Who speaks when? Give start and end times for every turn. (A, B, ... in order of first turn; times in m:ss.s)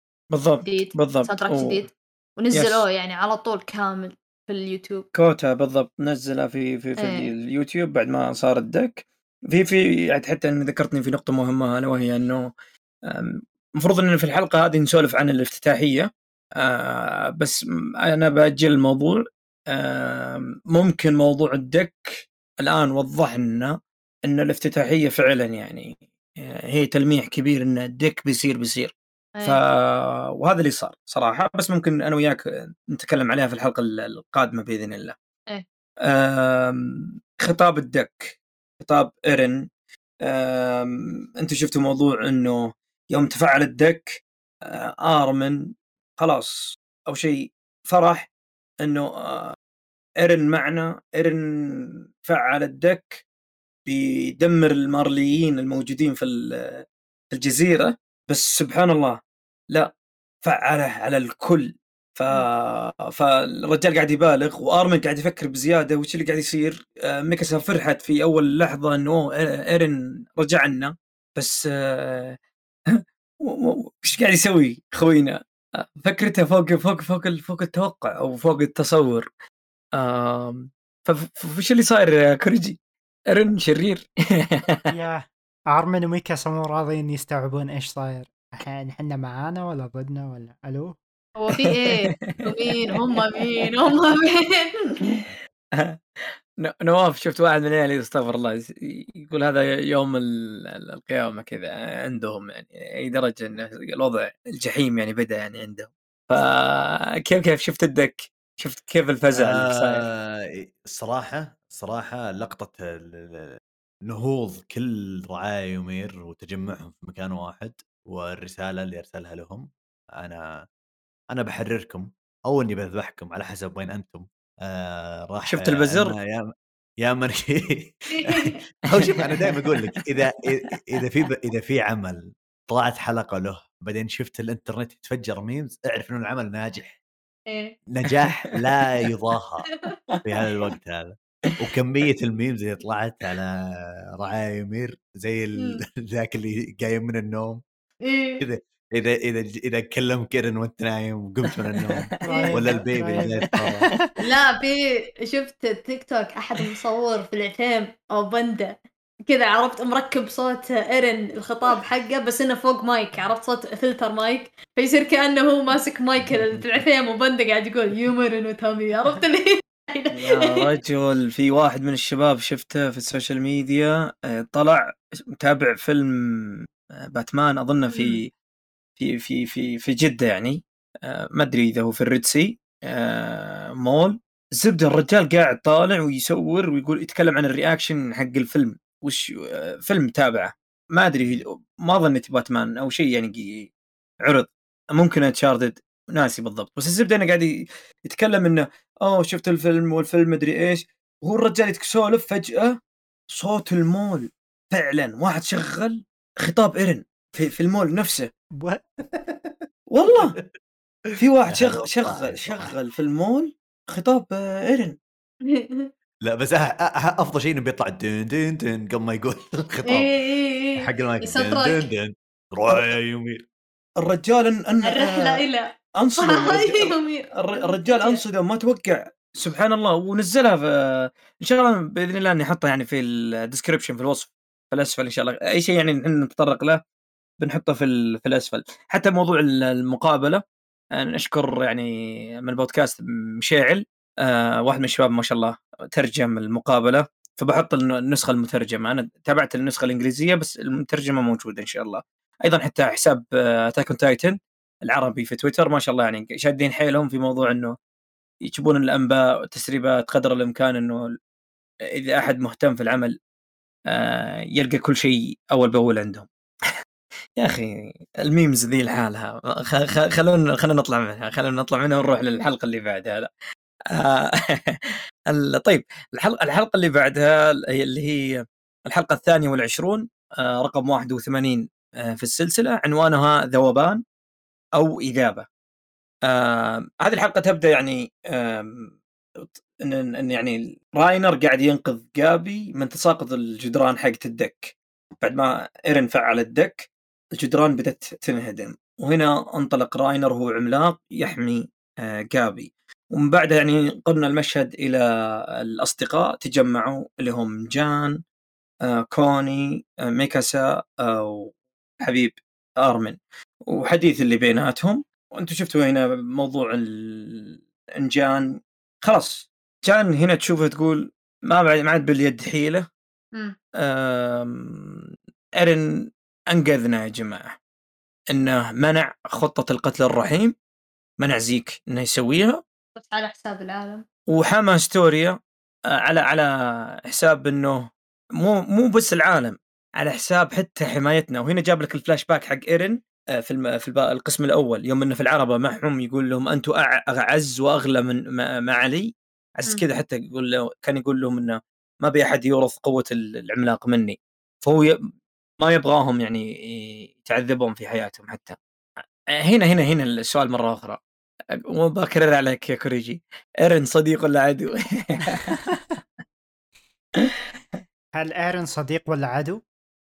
0:00.3-0:01.8 A
0:00.6-0:05.0 B
0:02.5-0:02.8 A
0:05.1-0:12.5 A
0:07.0-0:07.3 B
0:13.1-0:23.7 A
0:24.3-0:35.2 A
0:36.0-0:39.6 A
0:40.2-0:48.3 A
0:48.8-0:49.5 A
0:50.2-0:53.2 A
0:53.8-0:59.2 A
1:00.4-1:12.4 A
1:12.9-1:19.3 A
1:20.0-1:22.8 A
1:23.3-1:24.8 A
1:24.9-1:31.0 C
1:31.4-1:34.7 B
1:31.8-1:33.6 A
1:35.0-1:36.0 A
1:36.6-1:50.0 A
1:49.4-2:00.6 D
2:01.3-2:06.4 D
2:05.5-2:06.1 A
2:07.0-2:16.9 D
2:08.1-2:08.6 B
2:09.0-2:10.0 A
2:17.5-2:17.7 B
2:17.9-2:19.6 D
2:20.2-2:23.6 D
2:24.2-2:27.6 D
2:25.6-2:25.8 B
2:28.0-2:28.4 B
2:28.4-2:33.9 D
2:31.8-2:32.1 A
2:32.2-2:34.0 C
2:32.2-2:32.6 B
2:34.2-2:38.7 B
2:39.3-2:50.7 B
2:46.2-2:46.8 D
2:50.1-2:58.3 A
2:57.9-2:58.2 B
2:59.0-3:13.7 A
3:14.2-3:22.8 A
3:23.3-3:28.3 A
3:29.1-3:29.6 D
3:29.9-3:30.4 A
3:30.1-3:30.4 D
3:31.1-3:32.7 D
3:31.2-3:35.0 A
3:35.5-3:35.9 B
3:36.2-3:40.1 D
3:39.9-3:41.8 B
3:40.8-3:43.4 D
3:42.7-3:42.9 A
3:44.0-3:45.4 A
3:44.8-3:45.6 B
3:46.0-3:56.8 A
3:46.2-3:48.2 B
3:57.4-4:00.4 A
4:01.0-4:17.7 A
4:18.4-4:21.1 A
4:21.9-4:23.2 A
4:23.9-4:26.7 A
4:27.4-4:33.3 A
4:33.9-4:44.0 A
4:44.8-4:45.4 A
4:46.3-5:08.2 A
5:08.8-5:11.5 A
5:12.0-5:18.5 A
5:19.0-5:22.8 A
5:23.8-5:25.1 A
5:25.6-5:25.9 A
5:26.5-5:27.6 A
5:28.3-5:30.5 A
5:31.2-5:32.6 A
5:33.0-5:34.0 B
5:34.3-5:35.4 A
5:36.0-5:54.9 A
5:55.6-5:58.6 A
5:59.4-6:01.0 A
6:01.7-6:05.6 A
6:05.5-6:05.8 C
6:08.2-6:09.6 C